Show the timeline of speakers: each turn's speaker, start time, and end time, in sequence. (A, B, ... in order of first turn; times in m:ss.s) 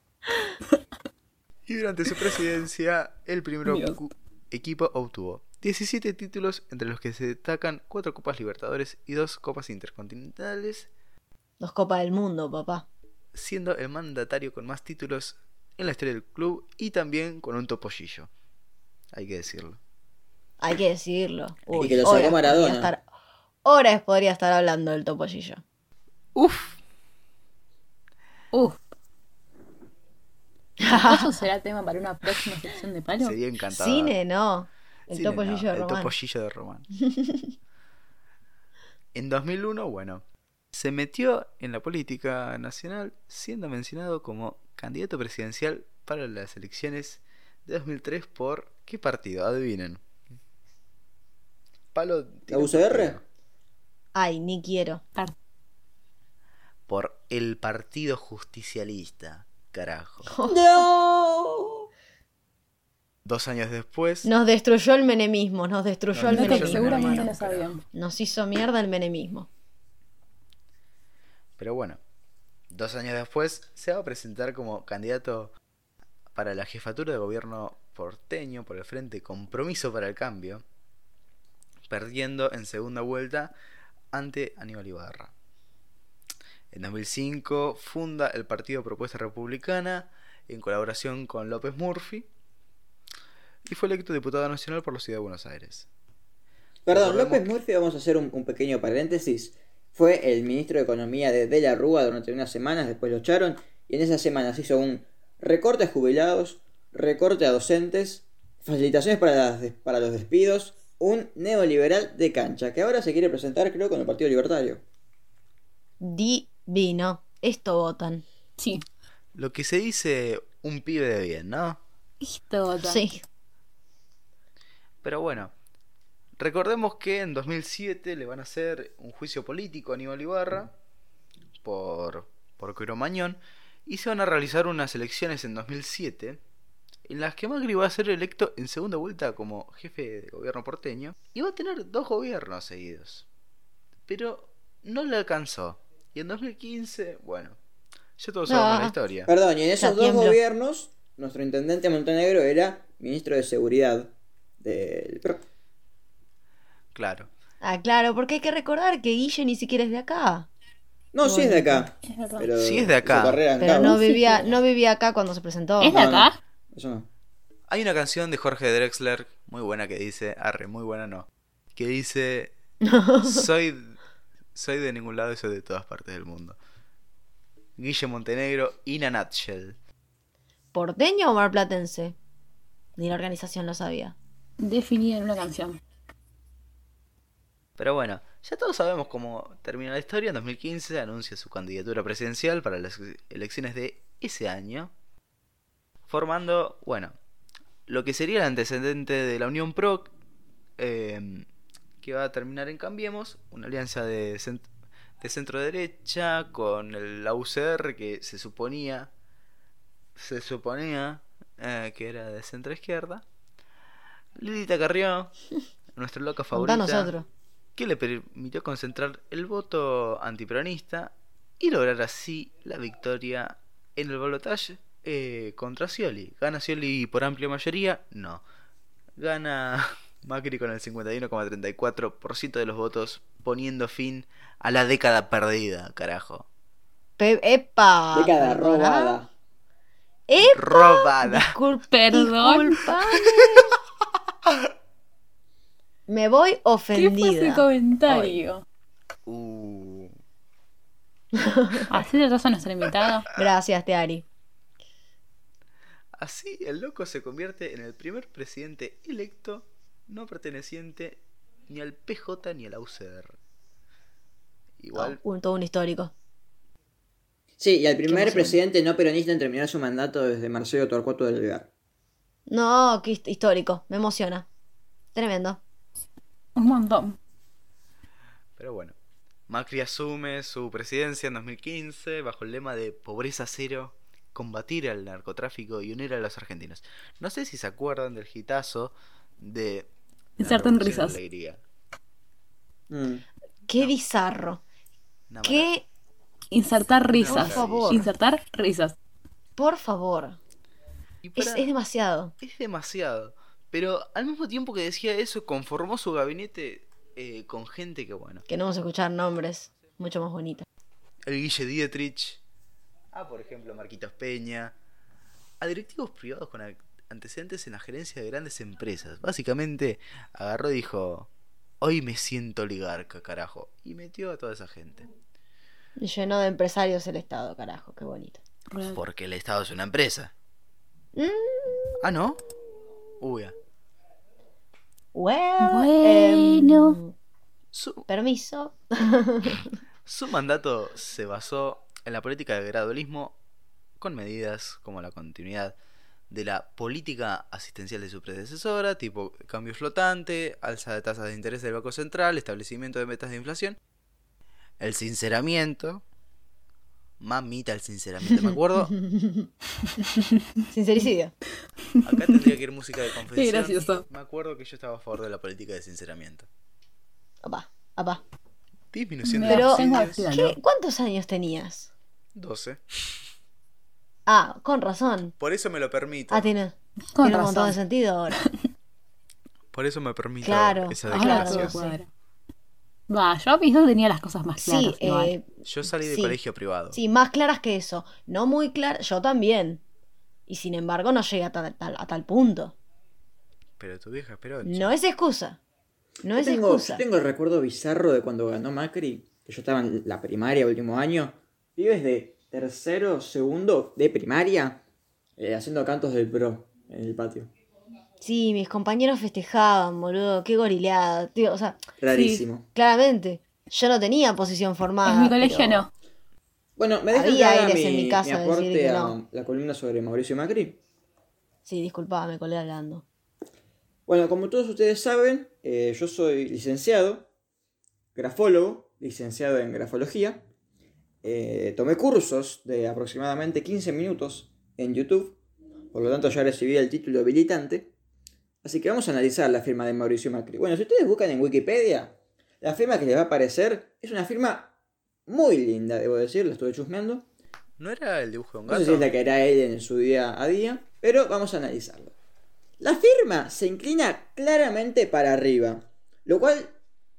0:01.7-0:10.9 A
0:03.6-0:04.0 B
0:11.6-0:12.8 C
0:13.3-0:18.3 A
0:19.1-0:19.8 A
0:20.6-0:23.0 C
0:21.7-0:22.9 D
0:21.9-0:22.3 A
0:23.6-0:25.6 C
0:26.3-0:26.8 A
0:28.5-0:28.8 B
0:30.8-0:31.3 C
0:30.8-0:33.4 B
0:33.2-0:34.1 A
0:33.7-0:36.1 C
0:35.1-0:36.9 A
0:37.0-0:37.5 C
0:39.1-0:50.0 A
0:51.9-0:53.2 A
0:52.5-0:53.2 D
0:54.1-0:55.0 C
0:56.9-1:00.3 A
1:00.3-1:00.6 C
1:00.5-1:01.8 D
1:03.2-1:04.3 A
1:04.2-1:07.3 C
1:06.1-1:07.7 A
1:06.3-1:07.8 B
1:07.9-1:09.5 C
1:11.6-1:12.0 A
1:12.7-1:15.5 A
1:16.3-1:20.6 A
1:21.9-1:23.5 A
1:24.1-1:25.3 A
1:26.7-1:32.3 A
1:33.6-1:35.9 A
1:36.8-1:54.8 D
1:36.9-1:37.5 A
1:56.0-1:58.2 C
1:58.6-1:58.8 B
1:59.3-2:01.8 A
2:02.2-2:03.0 B
2:02.8-2:03.2 C
2:05.0-2:05.5 A
2:06.4-2:10.7 A
2:11.6-2:16.4 A
2:17.1-2:23.3 A
2:24.1-2:27.6 A
2:28.2-2:29.3 A
2:28.5-2:28.9 C
2:29.3-2:35.4 D
2:29.8-2:30.4 C
2:36.9-2:37.3 A
2:37.6-2:40.5 C
2:41.1-2:44.0 D
2:41.2-2:41.9 C
2:42.0-2:42.5 B
2:42.6-2:43.4 A
2:43.6-2:46.0 C
2:43.7-2:44.5 B
2:45.8-2:46.4 B
2:45.8-2:47.1 D
2:47.7-2:52.5 A
2:52.8-2:53.4 C
2:53.2-2:54.0 A
2:54.5-2:56.6 A
2:57.8-2:59.8 A
3:00.7-3:02.2 C
3:03.0-3:04.2 C
3:04.6-3:05.8 B
3:07.8-3:14.9 A
3:16.1-3:17.1 A
3:17.9-3:20.1 A
3:20.8-3:21.5 A
3:22.0-3:24.7 A
3:25.2-3:29.1 A
3:30.2-3:33.2 A
3:34.4-3:35.3 A
3:35.9-3:37.1 A
3:36.5-3:37.3 C
3:37.8-3:48.4 A
3:49.2-3:56.5 A
3:57.2-3:59.2 C
3:58.1-3:59.3 D
4:00.3-4:03.8 C
4:00.4-4:01.6 A
4:01.9-4:02.8 B
4:06.1-4:07.6 C
4:06.9-4:08.6 B
4:08.1-4:08.4 A
4:09.2-4:10.1 A
4:11.4-4:11.9 C
4:11.9-4:13.3 B
4:13.3-4:14.2 C
4:16.1-4:23.4 A
4:24.8-4:25.2 A
4:24.9-4:26.1 C
4:27.6-4:31.7 D
4:28.1-4:28.6 C
4:32.5-4:34.5 C
4:35.1-4:35.6 C
4:36.6-4:37.2 B
4:38.6-4:39.0 A
4:39.5-4:51.6 A
4:50.4-4:51.2 B
4:52.9-4:53.2 D
4:53.7-4:54.6 C
4:55.3-4:55.7 A
4:55.4-4:55.8 C
4:56.5-4:59.0 B
4:57.1-4:58.0 A
4:57.2-4:58.1 C
4:59.6-5:00.4 C
5:01.2-5:01.7 A
5:01.4-5:02.3 C
5:02.4-5:08.4 A
5:08.5-5:10.6 C
5:11.2-5:12.4 A
5:13.1-5:14.7 A
5:15.6-5:21.3 A
5:21.8-5:25.1 A
5:26.0-5:28.4 C
5:28.7-5:29.0 B
5:28.9-5:30.3 A
5:31.1-5:32.0 C
5:32.0-5:32.4 A
5:33.2-5:33.5 A
5:35.1-5:37.1 C
5:35.6-5:37.0 B
5:37.7-5:38.1 A
5:38.1-5:39.7 C
5:40.0-5:43.4 A
5:44.0-5:45.8 A
5:46.3-5:53.8 A
5:54.8-5:56.0 A
5:57.2-5:58.9 A
5:58.9-5:59.5 C
6:00.7-6:01.3 C
6:01.9-6:02.6 B
6:02.0-6:06.5 A
6:03.3-6:04.0 B
6:07.4-6:08.2 C
6:08.9-6:10.3 A
6:09.2-6:10.6 B
6:09.4-6:11.9 C
6:12.3-6:12.8 A
6:14.2-6:15.3 C
6:15.4-6:16.5 A
6:16.3-6:18.4 C
6:17.1-6:17.8 B
6:19.7-6:21.8 A
6:20.4-6:22.0 C
6:21.1-6:22.1 B
6:23.1-6:25.3 B
6:24.6-6:25.5 C
6:25.6-6:27.0 A
6:26.0-6:26.4 C
6:26.9-6:29.8 C
6:30.5-6:32.8 C
6:33.8-6:34.9 A
6:34.6-6:35.6 C
6:36.2-6:37.0 C
6:36.3-6:44.8 D
6:45.4-6:47.5 D
6:48.2-6:51.8 C
6:52.0-6:52.6 D
6:52.1-6:52.4 B
6:52.7-6:55.8 C
6:55.0-6:55.9 B
6:56.8-7:00.8 D
6:57.1-6:59.2 C
7:01.6-7:03.0 C
7:04.1-7:07.3 D
7:08.1-7:10.4 D
7:11.2-7:15.4 D
7:15.9-7:17.9 D
7:18.6-7:24.7 D
7:25.3-7:27.3 D
7:27.8-7:29.1 A
7:28.7-7:32.1 D
7:32.8-7:36.7 D